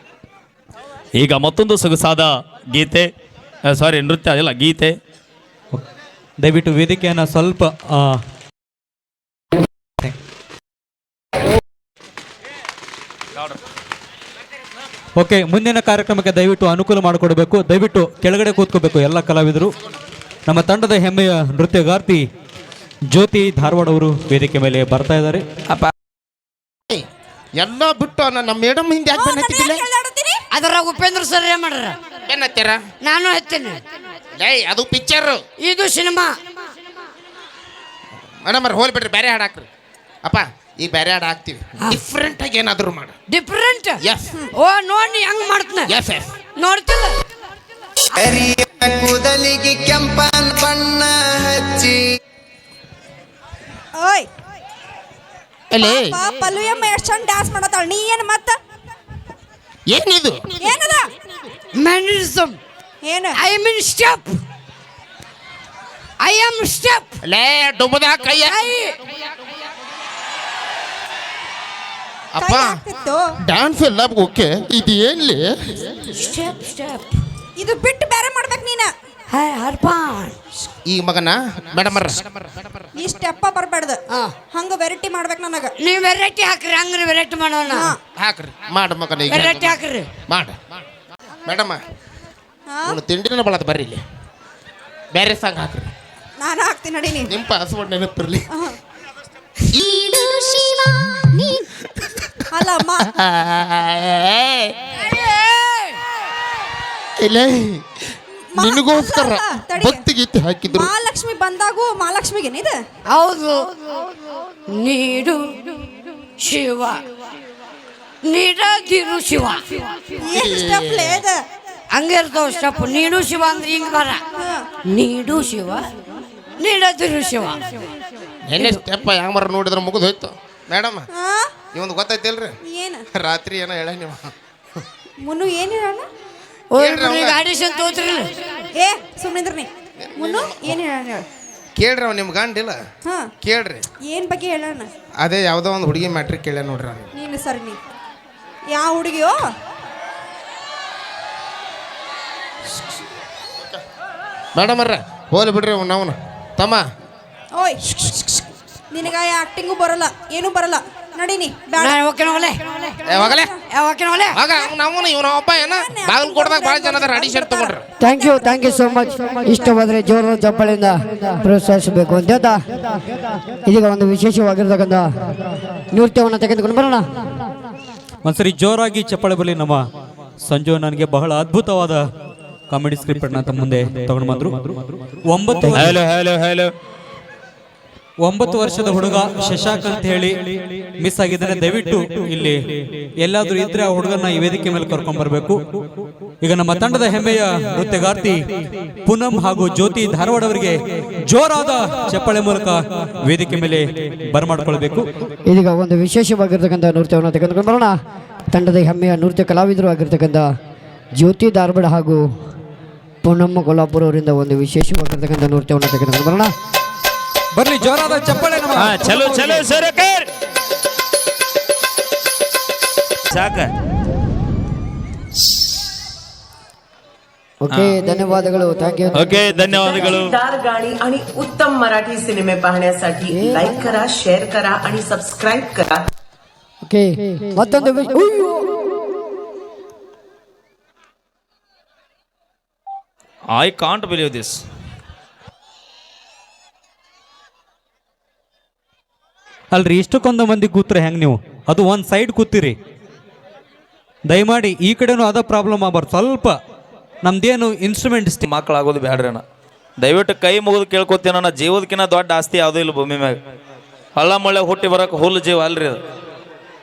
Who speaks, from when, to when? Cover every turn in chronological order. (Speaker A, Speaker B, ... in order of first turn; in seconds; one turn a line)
Speaker A: 1.2-3.1
Speaker A: 3.7-4.9
Speaker B: 6.4-8.2
Speaker B: 15.2-19.7
Speaker B: 20.4-22.2
Speaker B: 23.1-25.4
Speaker C: 27.6-29.8
Speaker D: 29.1-30.4
Speaker E: 30.5-31.9
Speaker C: 32.3-32.8
Speaker E: 33.0-33.8
Speaker C: 34.4-35.4
Speaker E: 35.6-36.3
Speaker C: 38.4-39.7
Speaker C: 40.2-43.1
Speaker E: 43.3-44.0
Speaker C: 44.0-44.3
Speaker E: 44.5-45.9
Speaker C: 45.9-46.3
Speaker E: 46.6-47.2
Speaker F: 48.2-52.0
Speaker D: 54.0-54.3
Speaker C: 55.7-56.2
Speaker D: 55.8-58.5
Speaker C: 59.9-60.9
Speaker D: 60.6-61.1
Speaker E: 61.8-62.6
Speaker D: 63.0-63.4
Speaker E: 63.4-64.3
Speaker E: 66.2-67.2
Speaker C: 67.2-68.6
Speaker E: 68.4-69.0
Speaker C: 72.3-72.8
Speaker D: 72.4-73.2
Speaker C: 73.5-76.1
Speaker E: 76.1-77.2
Speaker D: 77.6-78.9
Speaker E: 79.3-80.3
Speaker C: 80.8-82.8
Speaker D: 82.9-84.0
Speaker D: 84.5-85.7
Speaker E: 85.8-87.9
Speaker D: 87.7-88.0
Speaker C: 88.2-90.8
Speaker E: 89.3-90.1
Speaker C: 91.4-91.8
Speaker D: 92.7-93.0
Speaker C: 92.9-94.0
Speaker C: 95.1-95.9
Speaker D: 96.4-97.3
Speaker C: 97.3-98.5
Speaker D: 98.5-98.8
Speaker C: 99.7-102.4
Speaker D: 102.5-103.1
Speaker C: 103.0-104.7
Speaker E: 105.1-106.0
Speaker C: 107.2-107.8
Speaker D: 108.5-110.0
Speaker C: 108.6-110.9
Speaker D: 110.7-112.8
Speaker E: 113.1-114.0
Speaker E: 114.7-115.8
Speaker E: 116.4-117.0
Speaker E: 118.3-120.1
Speaker D: 120.2-121.4
Speaker C: 120.3-121.2
Speaker E: 121.9-124.2
Speaker D: 124.4-124.7
Speaker E: 124.9-125.8
Speaker E: 126.6-127.8
Speaker C: 128.4-131.1
Speaker D: 131.1-131.5
Speaker C: 131.7-132.6
Speaker D: 132.6-133.0
Speaker C: 133.1-134.3
Speaker D: 135.2-136.1
Speaker E: 136.7-138.6
Speaker C: 136.8-137.4
Speaker D: 138.8-141.2
Speaker C: 140.0-140.7
Speaker C: 141.8-142.8
Speaker C: 143.4-143.8
Speaker D: 144.1-144.9
Speaker C: 145.2-147.1
Speaker D: 147.1-147.8
Speaker D: 148.7-149.4
Speaker C: 154.5-156.8
Speaker C: 157.9-158.4
Speaker D: 158.9-162.4
Speaker E: 161.8-163.0
Speaker C: 163.1-163.5
Speaker D: 163.1-163.5
Speaker E: 163.7-164.4
Speaker C: 164.3-167.8
Speaker D: 165.6-168.8
Speaker G: 168.0-172.6
Speaker D: 169.5-169.8
Speaker G: 173.7-175.1
Speaker G: 175.9-177.0
Speaker B: 178.2-179.8
Speaker B: 180.4-182.1
Speaker B: 182.7-186.0
Speaker A: 185.7-186.7
Speaker B: 188.2-195.9
Speaker B: 196.4-198.4
Speaker B: 199.1-205.2
Speaker G: 205.5-207.9
Speaker G: 208.5-210.5
Speaker G: 211.2-212.2
Speaker G: 213.2-216.5
Speaker B: 217.6-219.7
Speaker A: 218.7-220.3
Speaker A: 223.3-223.7
Speaker G: 227.6-230.2
Speaker A: 227.7-228.0
Speaker A: 229.1-230.3
Speaker H: 229.8-236.0
Speaker G: 233.3-233.7
Speaker G: 236.8-238.6
Speaker A: 243.5-244.6
Speaker B: 249.7-252.8
Speaker B: 254.3-256.6
Speaker B: 257.2-258.4
Speaker A: 258.4-259.4
Speaker A: 260.0-263.4
Speaker A: 264.2-266.0